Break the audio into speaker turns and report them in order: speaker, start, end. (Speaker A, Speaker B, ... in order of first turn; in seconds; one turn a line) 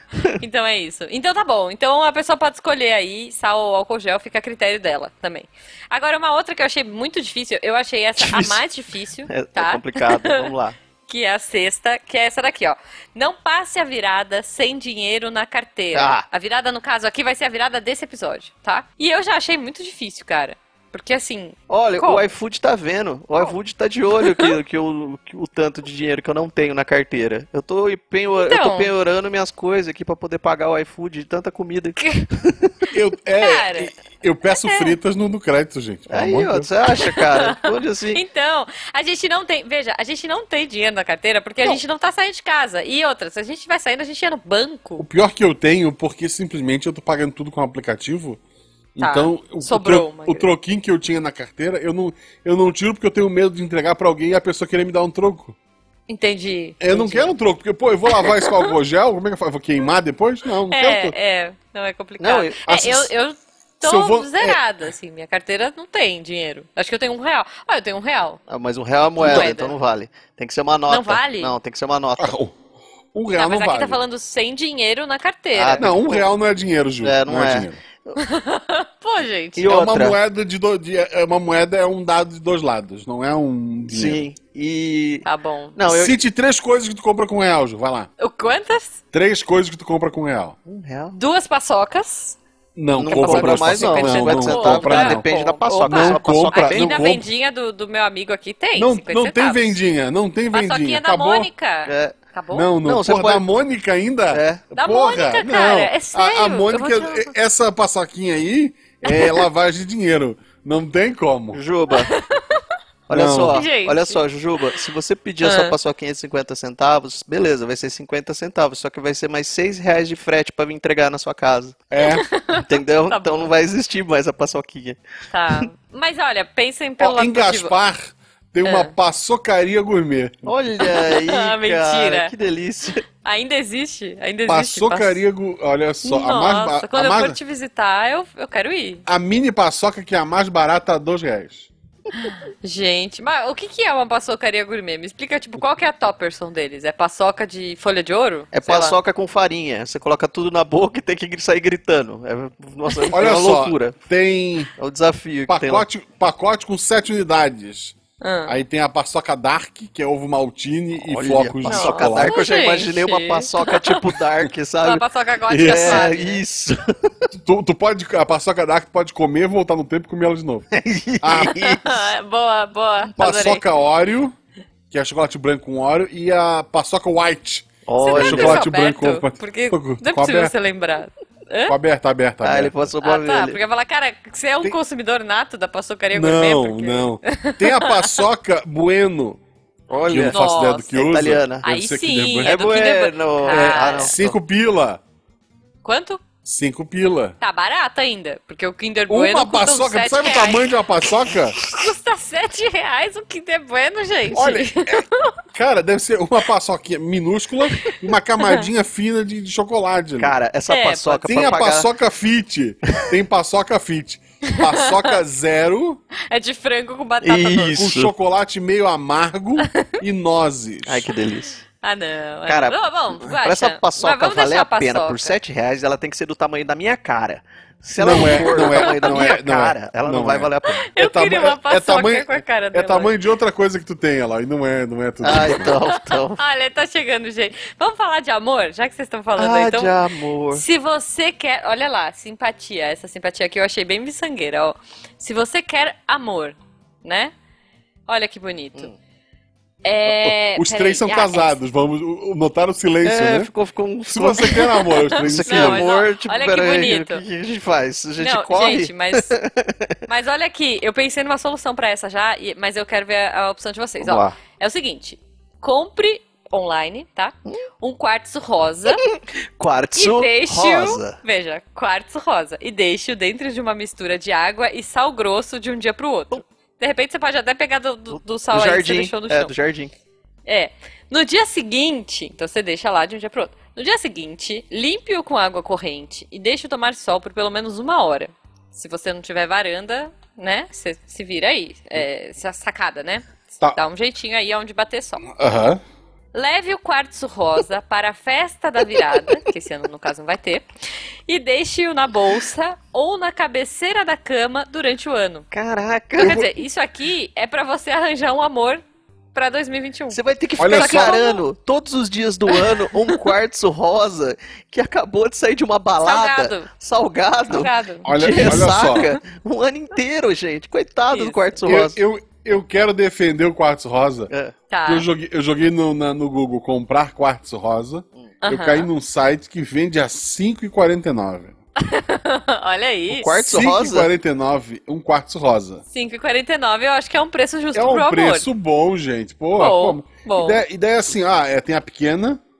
Speaker A: 0.4-10.5
Speaker B: 8.2-8.6
Speaker B: 9.3-10.8
Speaker A: 11.1-22.3
Speaker B: 15.9-16.2
Speaker B: 21.7-32.7
Speaker A: 24.2-24.5
Speaker A: 28.4-28.9
Speaker A: 32.0-32.2
Speaker C: 32.9-36.7
Speaker A: 33.3-33.9
Speaker A: 34.5-34.9
Speaker B: 36.1-38.2
Speaker A: 36.9-45.0
Speaker C: 45.0-48.4
Speaker C: 49.0-55.5
Speaker A: 49.0-50.5
Speaker A: 56.1-57.3
Speaker C: 56.8-61.1
Speaker A: 58.1-58.7
Speaker A: 60.7-68.4
Speaker B: 62.2-62.9
Speaker C: 62.7-63.0
Speaker C: 63.8-64.6
Speaker B: 68.5-72.3
Speaker A: 69.2-69.7
Speaker C: 69.2-69.5
Speaker A: 70.9-71.5
Speaker C: 72.2-72.5
Speaker C: 73.1-74.0
Speaker A: 73.3-76.0
Speaker B: 75.5-76.2
Speaker C: 75.8-77.8
Speaker B: 77.0-78.2
Speaker A: 78.2-79.8
Speaker B: 79.6-80.2
Speaker C: 79.6-84.2
Speaker B: 83.9-86.2
Speaker A: 85.2-85.8
Speaker C: 85.9-88.1
Speaker A: 88.2-89.0
Speaker C: 89.1-90.5
Speaker B: 90.7-91.2
Speaker A: 91.1-92.4
Speaker C: 92.7-95.2
Speaker B: 93.0-97.1
Speaker A: 93.1-99.8
Speaker C: 95.8-97.2
Speaker C: 98.7-101.5
Speaker A: 100.5-102.7
Speaker B: 101.8-102.2
Speaker C: 102.5-111.6
Speaker B: 102.8-103.4
Speaker B: 104.3-104.6
Speaker A: 104.8-107.3
Speaker A: 109.0-109.4
Speaker B: 111.5-112.1
Speaker A: 111.9-112.6
Speaker C: 113.1-113.6
Speaker B: 113.1-121.8
Speaker A: 113.5-114.2
Speaker A: 115.4-115.7
Speaker C: 121.9-122.2
Speaker A: 122.0-123.5
Speaker B: 122.6-125.0
Speaker A: 125.3-127.7
Speaker C: 127.0-130.5
Speaker A: 128.6-128.9
Speaker B: 130.4-133.0
Speaker A: 130.8-132.3
Speaker A: 133.2-135.2
Speaker C: 134.4-137.4
Speaker A: 136.0-139.0
Speaker C: 139.1-141.7
Speaker A: 142.1-149.0
Speaker B: 148.5-154.0
Speaker C: 153.1-154.7
Speaker B: 154.8-155.8
Speaker C: 155.5-162.5
Speaker A: 158.2-158.6
Speaker B: 161.0-165.0
Speaker A: 161.7-164.0
Speaker A: 164.8-166.4
Speaker C: 165.5-166.1
Speaker B: 165.6-167.3
Speaker C: 167.3-170.7
Speaker B: 170.7-172.0
Speaker C: 171.2-171.6
Speaker A: 171.3-173.6
Speaker C: 173.2-174.3
Speaker C: 174.9-180.5
Speaker B: 177.8-178.6
Speaker A: 178.0-181.7
Speaker C: 181.7-182.7
Speaker B: 182.4-183.6
Speaker A: 183.0-188.2
Speaker C: 186.1-189.4
Speaker B: 189.9-190.4
Speaker C: 190.0-192.6
Speaker A: 190.3-190.9
Speaker B: 190.9-191.7
Speaker A: 191.6-194.1
Speaker B: 192.4-194.3
Speaker C: 193.5-195.0
Speaker A: 195.8-196.2
Speaker C: 196.4-197.3
Speaker A: 197.4-200.8
Speaker C: 199.1-201.6
Speaker A: 201.6-205.3
Speaker C: 204.3-210.3
Speaker B: 210.2-211.9
Speaker A: 210.7-211.5
Speaker C: 211.2-216.0
Speaker A: 214.5-215.1
Speaker A: 216.2-217.8
Speaker B: 217.2-218.1
Speaker C: 217.8-221.1
Speaker A: 219.6-219.9
Speaker B: 220.8-221.6
Speaker A: 221.8-225.4
Speaker B: 222.5-230.9
Speaker C: 228.0-235.7
Speaker A: 228.5-229.1
Speaker A: 230.9-233.1
Speaker B: 235.2-236.4
Speaker A: 235.6-240.0
Speaker B: 239.4-240.6
Speaker A: 240.5-247.3
Speaker A: 248.1-248.9
Speaker A: 249.8-251.6
Speaker C: 250.1-253.5
Speaker B: 253.0-259.9
Speaker C: 254.1-255.9
Speaker A: 254.5-254.9
Speaker A: 255.4-257.2
Speaker A: 258.2-259.3
Speaker A: 260.1-269.0
Speaker B: 264.0-264.4
Speaker B: 269.0-271.2
Speaker A: 269.9-279.5
Speaker B: 278.1-279.9
Speaker A: 280.4-295.2
Speaker C: 295.2-295.8
Speaker A: 296.3-300.6
Speaker A: 301.3-305.5
Speaker B: 305.5-306.4
Speaker A: 306.2-308.8
Speaker C: 306.2-306.4
Speaker A: 309.3-311.4
Speaker B: 310.1-322.0
Speaker C: 310.6-311.2
Speaker A: 312.5-313.2
Speaker A: 316.0-316.7
Speaker A: 317.5-319.1
Speaker C: 318.0-319.1
Speaker A: 321.1-321.6
Speaker C: 321.6-324.3
Speaker A: 324.7-325.1
Speaker C: 324.9-331.6
Speaker A: 328.4-328.9
Speaker A: 331.8-333.5
Speaker B: 333.1-334.1
Speaker C: 333.4-335.8
Speaker A: 335.9-338.5
Speaker C: 337.7-342.4
Speaker A: 339.6-340.6